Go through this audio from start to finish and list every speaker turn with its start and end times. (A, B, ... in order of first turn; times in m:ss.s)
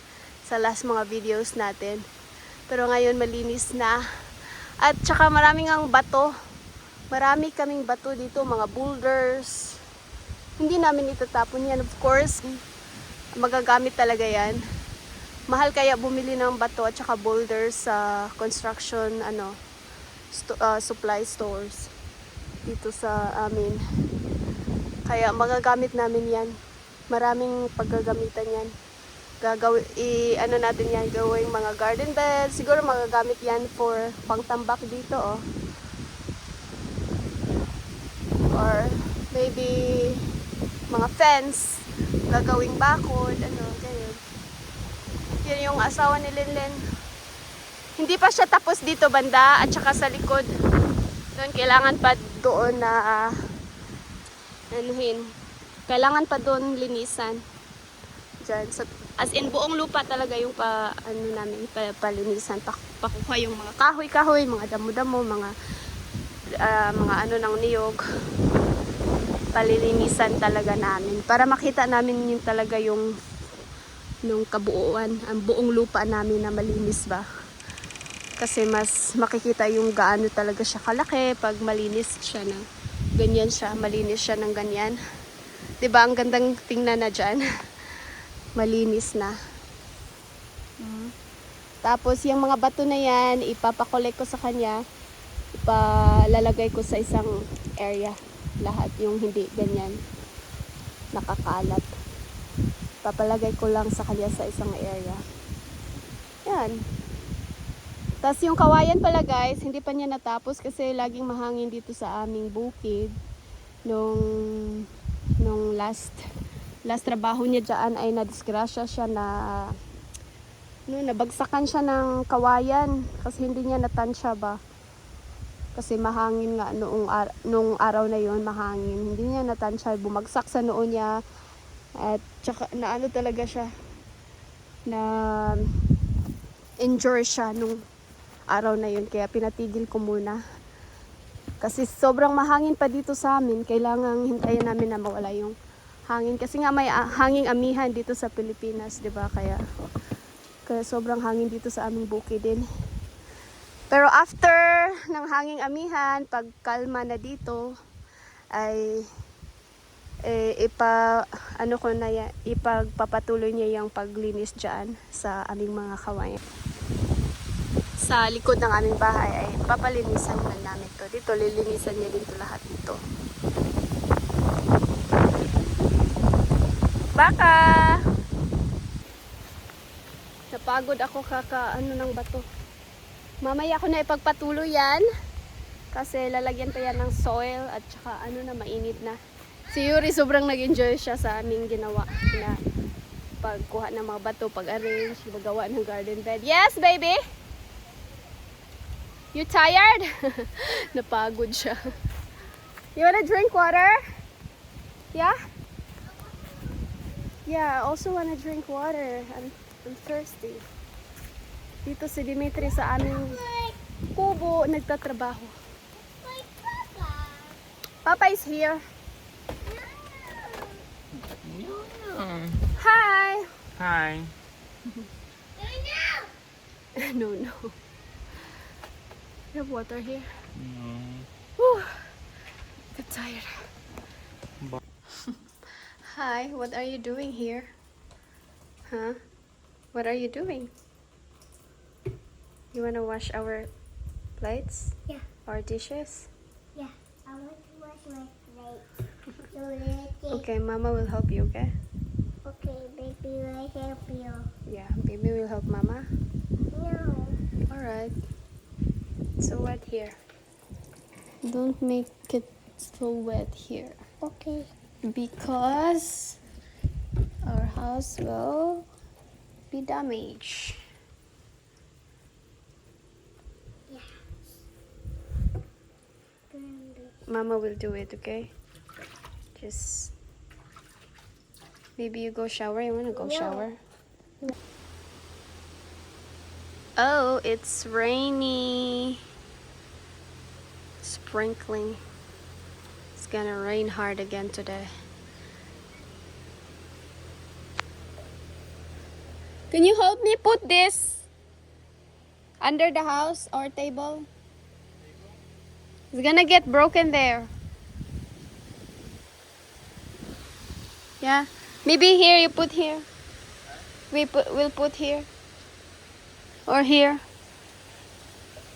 0:00.5-0:02.0 A
0:02.7-0:04.0 A
0:04.8-0:06.3 A
0:07.1-0:09.8 A
0:10.6-0:12.6 A
0:13.4-0:14.6 A
0:15.5-0:19.5 A
0:20.3-0:21.9 A
0:22.7-0:23.8 A
0:25.1-0:26.5 A
0:27.1-0:28.7 A
0:29.4-0:35.4 A
0:38.5-0:40.2 A
0:40.9-0:44.2 A
0:45.4-0:46.8 A
0:48.0-0:50.4 A
0:51.4-0:53.3 A
0:54.7-0:55.2 A
0:55.9-0:57.4 A
0:58.4-1:05.5 A
1:06.6-1:08.0 A
1:09.6-1:13.1 A
1:14.3-1:17.2 A
1:18.4-1:22.6 A
1:23.2-1:25.0 A
1:25.8-1:27.4 A
1:28.6-1:29.4 A
1:30.8-1:31.1 A
1:31.8-1:34.8 A
1:35.6-1:40.0 A
1:41.2-1:41.9 A
1:43.0-1:45.2 A
1:46.5-1:46.8 A
1:48.2-1:53.1 A
1:53.9-1:54.9 A
1:55.4-1:56.2 A
1:56.9-1:59.7 A
2:00.9-2:04.6 A
2:05.8-2:11.1 A
2:12.0-2:13.7 A
2:14.9-2:15.7 A
2:16.8-2:17.8 A
2:18.5-2:20.4 A
2:21.6-2:25.6 A
2:26.1-2:29.6 A
2:30.7-2:32.6 A
2:33.9-2:37.7 A
2:38.6-2:39.1 A
2:40.3-2:41.0 A
2:41.6-2:46.4 A
2:48.0-2:53.0 A
2:57.2-2:58.0 A
3:00.5-3:02.4 A
3:03.4-3:05.0 A
3:05.9-3:09.2 A
3:09.7-3:12.6 A
3:13.4-3:17.2 A
3:19.3-3:21.8 A
3:23.0-3:24.0 A
3:27.5-3:30.6 A
3:31.8-3:33.4 A
3:32.6-3:33.8 B
3:34.2-3:35.5 A
3:36.0-3:37.6 B
3:38.0-3:38.8 A
3:39.7-3:40.8 B
3:41.4-3:42.6 C
3:42.8-3:43.5 A
3:43.8-3:44.3 C
3:45.6-3:46.3 B
3:47.0-3:47.7 A
3:49.5-3:50.3 A
3:50.5-3:51.3 C
3:51.6-3:52.0 A
3:53.0-3:53.6 A
3:56.1-3:57.7 A
3:58.9-3:59.2 A
3:59.9-4:00.7 A
4:02.7-4:03.7 A
4:04.4-4:05.0 A
4:05.5-4:06.3 A
4:06.8-4:08.9 B
4:09.5-4:10.4 B
4:10.3-4:11.7 A
4:12.4-4:14.5 B
4:14.7-4:16.0 A
4:16.7-4:17.4 B
4:17.7-4:18.1 A
4:19.4-4:20.2 A
4:21.4-4:24.0 A
4:24.2-4:24.7 B
4:25.1-4:26.4 A
4:27.5-4:28.8 A
4:29.7-4:30.8 A
4:33.9-4:34.3 B
4:36.5-4:37.2 B
4:37.3-4:38.5 A
4:39.6-4:40.1 A
4:42.0-4:43.8 A
4:43.2-4:43.6 B
4:47.0-4:49.2 A
4:51.0-4:52.0 A
4:53.2-4:54.9 A
4:59.7-5:01.3 A
5:02.6-5:04.3 A
5:06.1-5:07.5 A
5:11.2-5:13.0 A
5:14.1-5:15.3 A
5:16.7-5:17.2 A